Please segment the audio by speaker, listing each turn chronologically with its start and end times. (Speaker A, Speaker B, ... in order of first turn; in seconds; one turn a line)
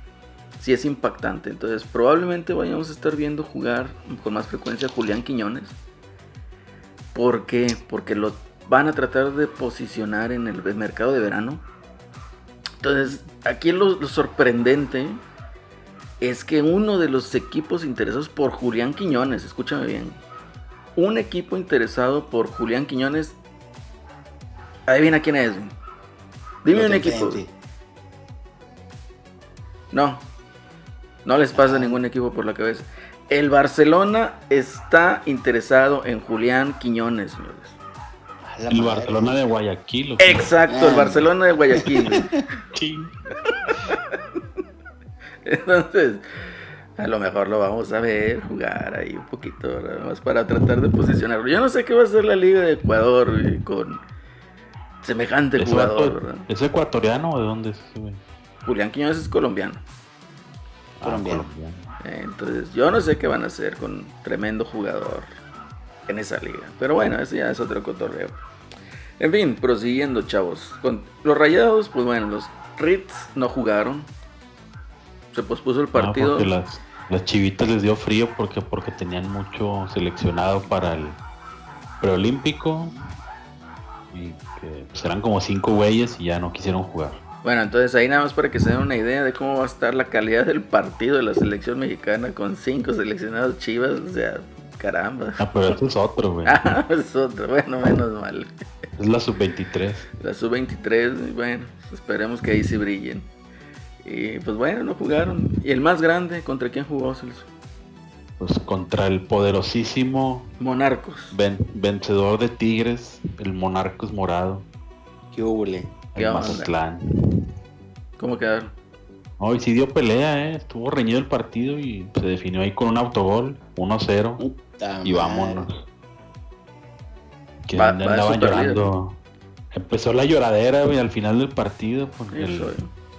Speaker A: 0.6-5.8
Speaker A: 7.1-11.6
Speaker A: 12.8-15.2
Speaker A: 16.2-20.2
Speaker A: 20.9-23.4
Speaker A: 24.9-25.7
Speaker A: 26.6-27.4
Speaker B: 26.7-27.5
Speaker A: 29.9-30.2
Speaker A: 31.2-37.8
Speaker B: 31.5-32.0
Speaker B: 38.4-39.4
Speaker C: 38.7-40.4
Speaker A: 40.2-42.2
Speaker B: 40.7-41.3
Speaker C: 42.0-43.1
Speaker A: 45.4-46.2
Speaker A: 47.0-54.0
Speaker A: 55.0-56.5
Speaker C: 55.5-58.2
Speaker A: 58.6-59.8
Speaker C: 61.0-61.9
Speaker B: 61.0-61.5
Speaker A: 62.0-65.3
Speaker A: 66.1-68.4
Speaker A: 69.2-74.1
Speaker A: 75.3-76.5
Speaker C: 75.9-81.2
Speaker C: 82.0-82.9
Speaker C: 84.1-87.2
Speaker A: 87.4-95.7
Speaker C: 95.4-96.6
Speaker A: 96.4-98.7
Speaker C: 99.0-100.1
Speaker A: 100.2-103.3
Speaker A: 104.0-107.5
Speaker C: 108.4-110.5
Speaker A: 110.6-111.4
Speaker C: 111.3-114.6
Speaker B: 115.3-116.0
Speaker C: 116.1-117.5
Speaker A: 116.2-116.7
Speaker A: 118.2-118.7
Speaker C: 119.4-124.4
Speaker B: 124.4-125.7
Speaker C: 125.0-125.8
Speaker C: 127.7-129.2
Speaker A: 127.7-128.9
Speaker C: 129.7-132.8
Speaker A: 132.3-132.9